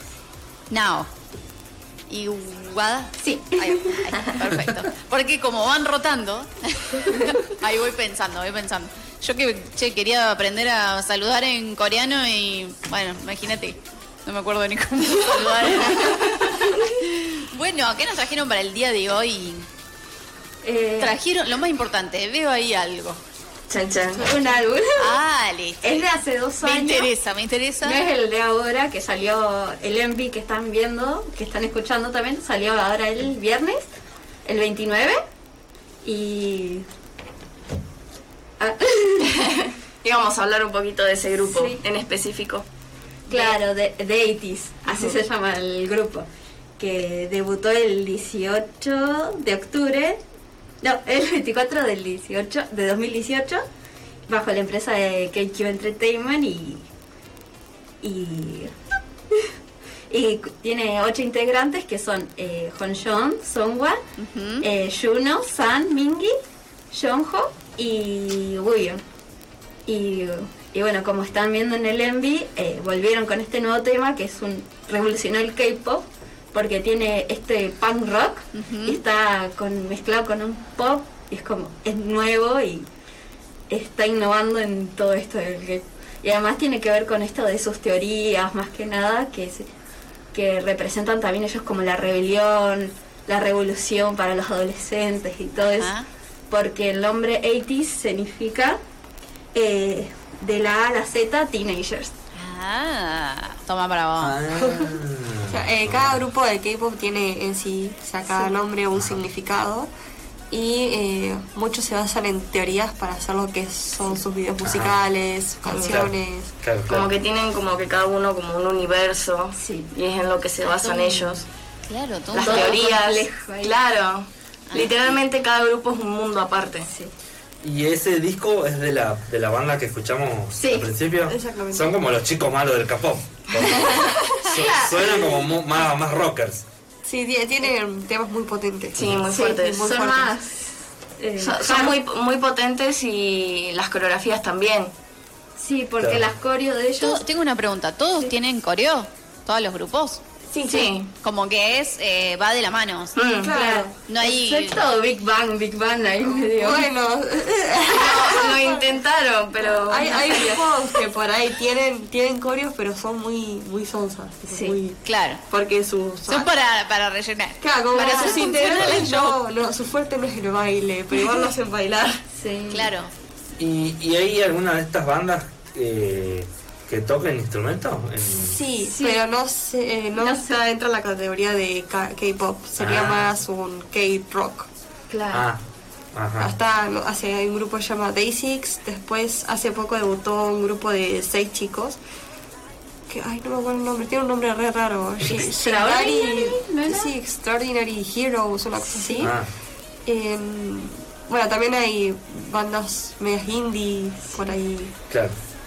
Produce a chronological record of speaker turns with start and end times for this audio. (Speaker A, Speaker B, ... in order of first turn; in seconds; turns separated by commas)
Speaker A: 0.7-1.1, Speaker A: 2.1-19.7, Speaker B: 3.2-4.1, Speaker B: 20.6-21.1, Speaker A: 21.0-23.2, Speaker C: 23.7-24.2, Speaker D: 24.1-24.6, Speaker B: 24.1-25.2, Speaker A: 25.0-26.0, Speaker B: 25.8-27.1, Speaker A: 26.6-28.0, Speaker B: 27.8-33.9, Speaker B: 34.4-35.2, Speaker B: 36.0-36.9, Speaker B: 38.6-39.5, Speaker C: 39.4-42.6, Speaker B: 41.4-41.8, Speaker B: 43.3-46.2, Speaker C: 44.9-45.2, Speaker B: 46.8-50.2, Speaker B: 50.8-53.6, Speaker B: 54.3-56.8, Speaker B: 58.0-58.7, Speaker B: 60.1-64.0, Speaker A: 64.2-64.7, Speaker B: 64.6-66.3, Speaker B: 66.9-69.0, Speaker B: 69.9-82.9, Speaker A: 78.5-79.0, Speaker B: 83.7-89.7, Speaker B: 90.3-95.9, Speaker A: 95.6-96.1, Speaker B: 96.5-98.8, Speaker B: 99.5-102.1, Speaker A: 102.3-104.3, Speaker E: 104.2-106.2, Speaker D: 105.5-109.9, Speaker D: 110.5-116.5, Speaker E: 114.6-115.0, Speaker B: 115.7-116.0, Speaker E: 115.8-117.1, Speaker C: 116.9-121.5, Speaker B: 119.6-119.9, Speaker A: 120.8-121.3, Speaker A: 121.9-122.8, Speaker C: 122.3-126.9, Speaker B: 122.3-123.8, Speaker A: 124.7-125.0, Speaker B: 126.8-127.1, Speaker E: 127.6-136.6, Speaker B: 130.5-130.9, Speaker D: 131.3-131.9, Speaker C: 133.7-134.3, Speaker B: 134.2-135.4, Speaker D: 137.0-140.3, Speaker C: 138.9-139.8, Speaker E: 139.0-139.2, Speaker B: 139.3-142.0, Speaker C: 141.4-144.9, Speaker B: 145.6-147.2, Speaker E: 146.0-146.3, Speaker A: 147.0-150.2, Speaker D: 150.6-150.9, Speaker C: 150.6-151.1, Speaker A: 151.2-153.2, Speaker C: 153.2-153.6, Speaker D: 153.4-153.9, Speaker B: 153.5-156.9, Speaker A: 154.1-154.8, Speaker D: 156.4-159.0, Speaker C: 157.9-160.7, Speaker D: 159.8-166.5, Speaker B: 164.5-164.8, Speaker A: 165.0-165.4, Speaker A: 166.3-169.4, Speaker D: 167.6-172.2, Speaker C: 167.9-168.6, Speaker B: 172.3-172.9, Speaker A: 172.7-173.1, Speaker E: 173.6-178.6, Speaker D: 178.4-184.7, Speaker B: 178.9-179.2, Speaker B: 180.2-180.6, Speaker E: 182.8-183.2, Speaker B: 185.1-185.4, Speaker E: 185.3-185.6, Speaker E: 186.1-186.5, Speaker D: 186.4-192.0, Speaker D: 193.1-199.3, Speaker B: 195.3-197.1, Speaker B: 199.0-199.3, Speaker E: 199.2-199.5, Speaker D: 200.1-204.9